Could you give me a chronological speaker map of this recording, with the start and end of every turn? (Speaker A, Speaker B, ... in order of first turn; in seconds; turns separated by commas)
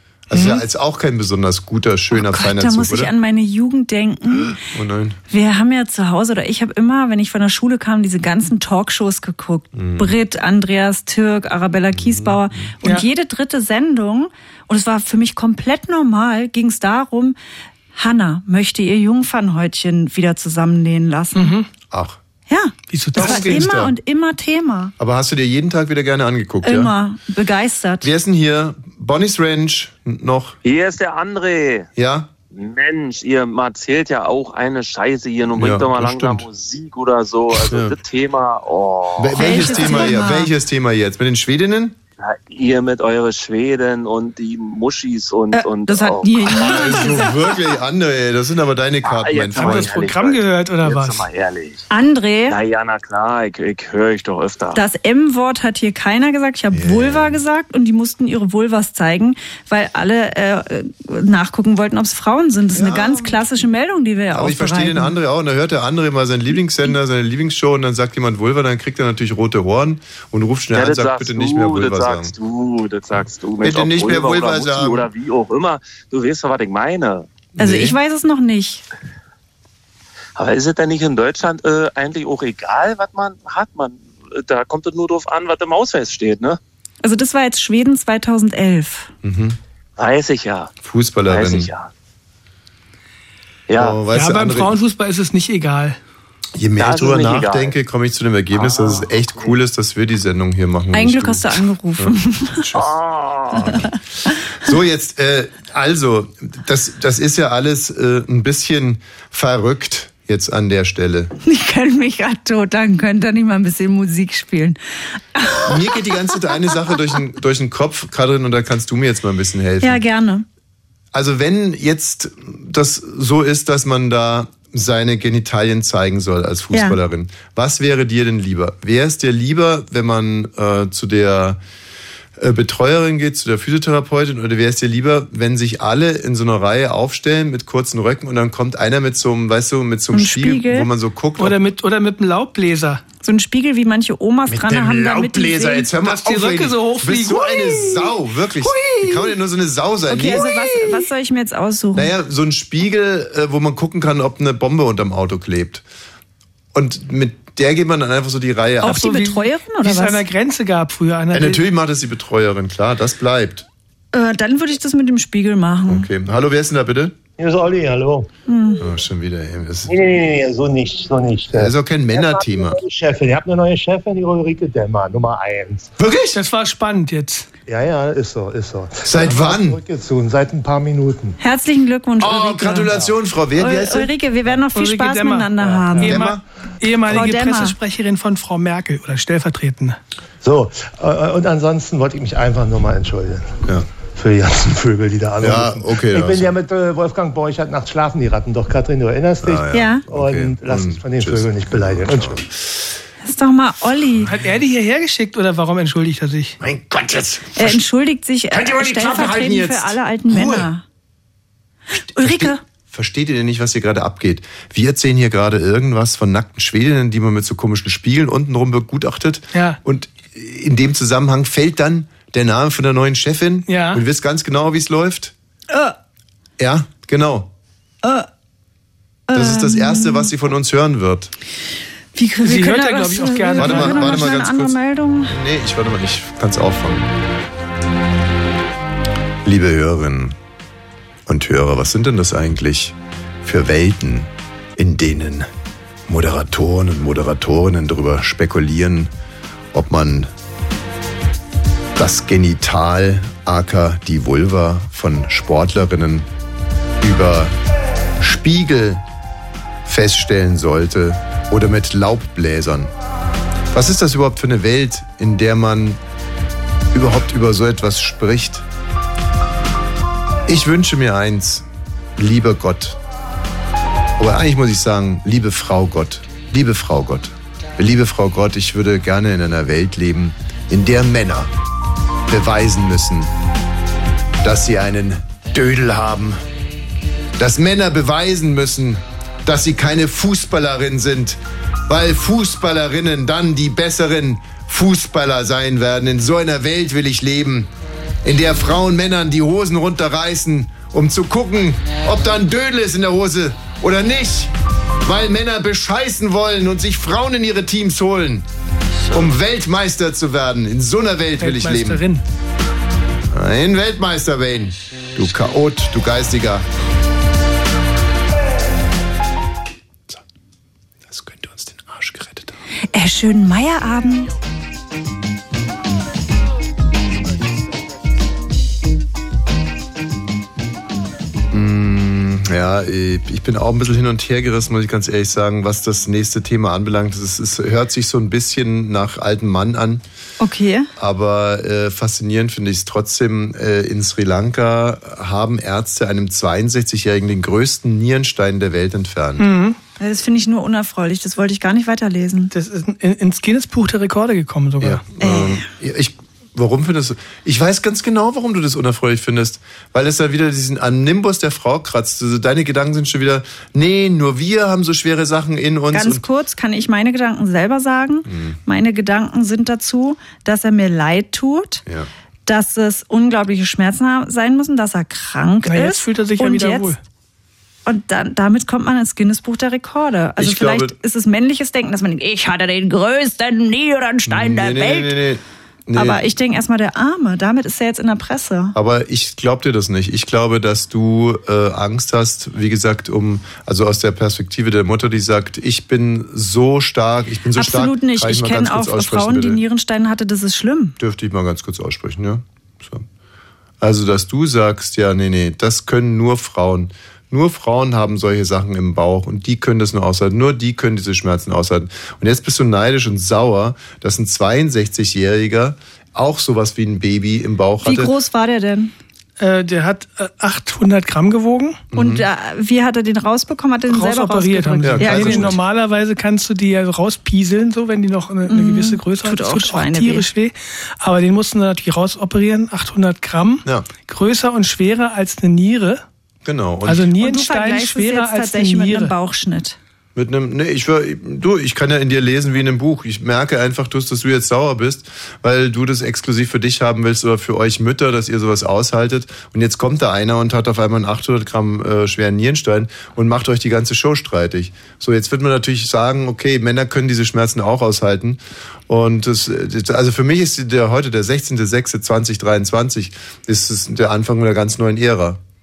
Speaker A: 0.3-3.1, Speaker B: 0.3-0.6, Speaker C: 2.1-4.6, Speaker A: 4.5-5.2, Speaker C: 5.3-17.4, Speaker A: 9.8-10.2, Speaker A: 11.9-12.7, Speaker C: 17.9-21.6, Speaker B: 21.4-21.7, Speaker A: 21.9-22.2, Speaker C: 22.5-24.9, Speaker B: 22.9-23.7, Speaker A: 23.1-23.9, Speaker A: 25.0-26.9, Speaker C: 26.6-28.1, Speaker A: 28.0-30.6, Speaker D: 30.6-31.9, Speaker A: 32.0-32.3, Speaker D: 32.5-40.0, Speaker A: 35.5-36.5, Speaker A: 37.6-38.0, Speaker A: 39.2-42.0, Speaker C: 39.4-40.5, Speaker D: 42.2-46.9, Speaker C: 45.5-47.3, Speaker A: 46.6-49.9, Speaker D: 49.0-51.9, Speaker B: 49.6-51.3, Speaker C: 51.9-52.6, Speaker D: 52.5-54.8, Speaker C: 54.8-65.2, Speaker A: 56.7-57.4, Speaker A: 62.8-63.4, Speaker A: 64.3-72.3, Speaker D: 70.7-77.3, Speaker A: 73.6-75.1, Speaker A: 77.6-78.0, Speaker C: 77.6-78.8, Speaker D: 80.4-86.6, Speaker C: 87.0-89.1, Speaker A: 89.2-89.6, Speaker D: 90.0-90.7, Speaker A: 90.8-91.7, Speaker D: 91.3-91.9, Speaker D: 93.7-94.0, Speaker A: 93.8-94.8, Speaker B: 94.1-96.0, Speaker A: 96.5-102.9, Speaker D: 96.8-97.8, Speaker D: 98.5-99.5, Speaker C: 100.9-102.7, Speaker D: 102.8-103.7, Speaker A: 103.5-111.3, Speaker C: 103.7-104.3, Speaker C: 111.4-114.8, Speaker C: 115.3-116.5, Speaker A: 115.6-120.0, Speaker C: 119.8-120.5, Speaker A: 121.1-131.6, Speaker C: 126.7-127.0, Speaker A: 132.4-141.6, Speaker C: 140.1-140.9, Speaker B: 141.4-143.0, Speaker C: 143.2-145.9, Speaker A: 144.5-150.5, Speaker B: 146.0-149.3, Speaker C: 150.1-152.1, Speaker B: 150.3-151.0, Speaker A: 151.9-155.8, Speaker A: 156.7-159.1, Speaker C: 158.8-160.2, Speaker B: 158.8-161.6, Speaker A: 161.3-163.7, Speaker C: 164.1-166.1, Speaker A: 165.9-167.2, Speaker E: 167.4-168.3, Speaker C: 168.5-168.8, Speaker A: 168.8-169.9, Speaker E: 169.9-175.9, Speaker A: 171.6-172.8, Speaker A: 176.0-176.4, Speaker B: 176.3-177.5, Speaker E: 177.7-181.4, Speaker A: 179.0-179.8, Speaker C: 181.4-182.9, Speaker A: 182.2-184.1, Speaker C: 183.6-186.2, Speaker B: 184.7-190.0, Speaker A: 186.0-186.4, Speaker C: 187.1-187.8, Speaker E: 190.4-193.6, Speaker E: 194.1-202.4, Speaker A: 195.4-196.6, Speaker A: 199.4-202.5, Speaker C: 199.7-200.1, Speaker C: 203.2-204.3, Speaker B: 204.3-206.6, Speaker A: 206.6-207.8, Speaker C: 207.6-210.8, Speaker A: 208.5-210.7, Speaker C: 212.0-212.6, Speaker A: 212.1-225.3, Speaker B: 219.5-219.8, Speaker B: 223.7-224.0, Speaker A: 226.6-227.5, Speaker C: 228.0-228.3, Speaker C: 229.3-230.3, Speaker A: 229.3-231.3, Speaker C: 232.2-235.3, Speaker B: 232.4-234.2, Speaker A: 233.6-237.1, Speaker A: 239.4-240.4, Speaker A: 241.3-245.5, Speaker A: 246.1-249.1, Speaker A: 249.7-250.3, Speaker A: 252.0-256.3, Speaker A: 257.0-257.6, Speaker A: 258.2-259.0, Speaker A: 259.9-262.9, Speaker A: 263.7-266.0, Speaker A: 266.9-268.7, Speaker A: 270.5-271.7, Speaker A: 272.2-273.0, Speaker A: 274.2-281.5, Speaker A: 282.3-283.3, Speaker A: 284.4-286.4, Speaker A: 287.4-297.7, Speaker A: 298.2-308.5, Speaker A: 309.1-312.1, Speaker B: 311.4-312.2, Speaker A: 313.3-316.7, Speaker A: 321.1-322.6, Speaker C: 322.9-324.3, Speaker A: 331.5-340.0, Speaker C: 340.4-340.9, Speaker A: 341.0-349.5, Speaker B: 349.4-349.8, Speaker C: 350.0-352.5, Speaker B: 352.5-355.0, Speaker A: 354.8-366.2, Speaker C: 355.2-355.6, Speaker C: 365.9-371.8, Speaker A: 368.3-368.6, Speaker C: 372.5-376.9, Speaker B: 375.7-377.0, Speaker C: 377.9-385.2, Speaker A: 380.4-380.9, Speaker A: 384.3-386.3, Speaker C: 385.9-388.8, Speaker A: 388.8-399.6, Speaker C: 397.6-401.0, Speaker A: 401.0-403.1, Speaker A: 403.8-418.1, Speaker C: 417.8-418.9, Speaker B: 419.4-421.8, Speaker A: 421.9-422.2, Speaker C: 421.9-425.6, Speaker B: 423.9-436.0, Speaker A: 424.8-425.6, Speaker C: 428.5-430.3, Speaker A: 436.4-437.1, Speaker B: 436.9-439.1, Speaker C: 437.2-439.8, Speaker A: 440.1-465.4